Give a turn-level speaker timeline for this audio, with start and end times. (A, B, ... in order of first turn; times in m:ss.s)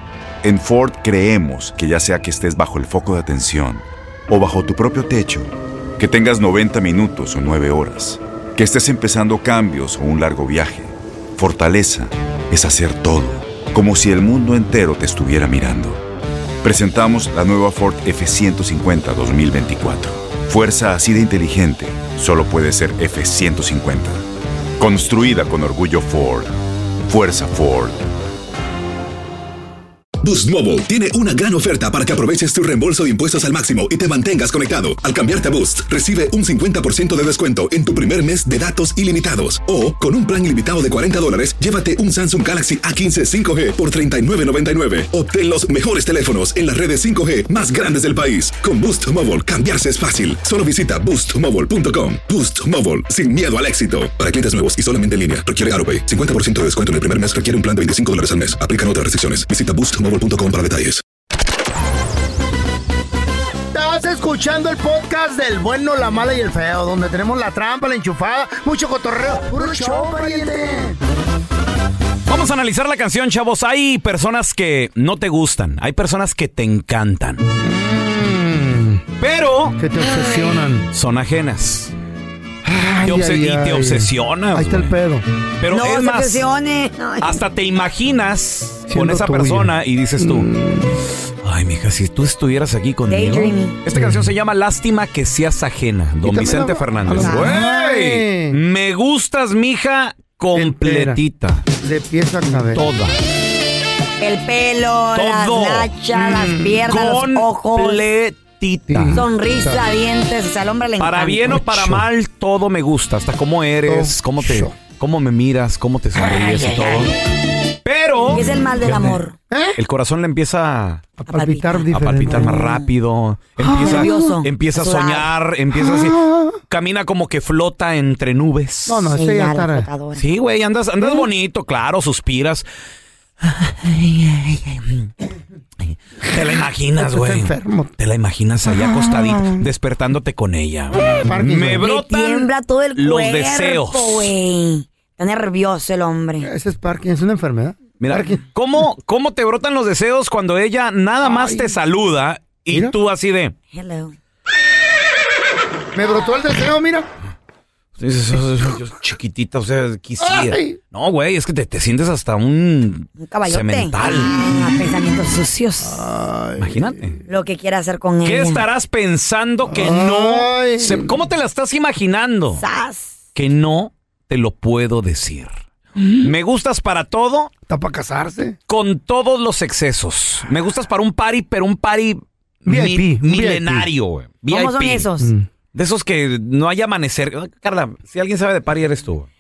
0:00.4-0:16.0 A
0:16.6-0:24.2 A
0:24.8-0:26.5 A
0:27.0-0:28.0 A
0:30.2-1:01.0 B
1:03.7-1:11.0 C
1:12.3-1:17.4 D
1:17.6-1:19.0 C
1:19.2-1:19.8 D
1:19.8-1:20.9 C
1:20.9-1:21.9 D
1:22.6-1:25.2 C
1:23.0-1:24.9 D
1:25.6-1:26.5 D
1:25.7-1:27.4 E
1:27.2-1:30.5 D
1:28.9-1:31.0 C
1:31.4-1:41.7 D
1:33.1-1:33.8 E
1:33.9-1:34.3 C
1:36.2-1:38.6 C
1:37.2-1:37.5 E
1:40.5-1:41.2 C
1:41.8-1:42.8 C
1:42.5-1:43.2 D
1:44.2-1:48.0 E
1:45.1-1:45.9 D
1:46.1-1:46.9 C
1:46.9-1:49.2 D
1:48.9-1:49.8 C
1:49.1-1:51.6 E
1:51.0-1:57.2 D
1:51.5-1:52.0 C
1:53.8-1:54.8 C
1:56.4-1:56.9 C
1:57.8-1:59.1 D
1:58.3-1:59.4 E
1:59.5-1:59.8 C
1:59.8-2:01.1 D
2:01.2-2:02.8 C
2:01.3-2:02.8 E
2:01.9-2:09.1 D
2:03.6-2:04.3 C
2:03.8-2:05.3 E
2:05.7-2:06.6 C
2:08.9-2:09.9 C
2:09.2-2:10.2 E
2:10.2-2:12.6 D
2:13.4-2:15.1 D
2:15.9-2:24.3 D
2:17.0-2:17.9 C
2:18.7-2:19.7 C
2:21.2-2:21.9 C
2:21.8-2:26.5 E
2:26.4-2:28.4 C
2:28.0-2:33.5 D
2:31.2-2:31.8 C
2:33.7-2:34.2 E
2:35.9-2:37.1 C
2:38.0-2:44.4 D
2:40.2-2:40.8 C
2:43.2-2:46.0 E
2:45.8-2:47.2 C
2:46.6-2:47.2 D
2:47.3-2:48.6 E
2:48.2-2:52.6 D
2:49.7-2:51.2 C
2:52.6-2:53.1 E
2:53.4-2:55.6 D
2:56.1-2:57.5 D
2:57.7-2:58.6 C
2:58.7-3:05.1 D
3:02.7-3:03.9 C
3:04.5-3:05.3 E
3:05.2-3:05.5 C
3:05.7-3:09.3 D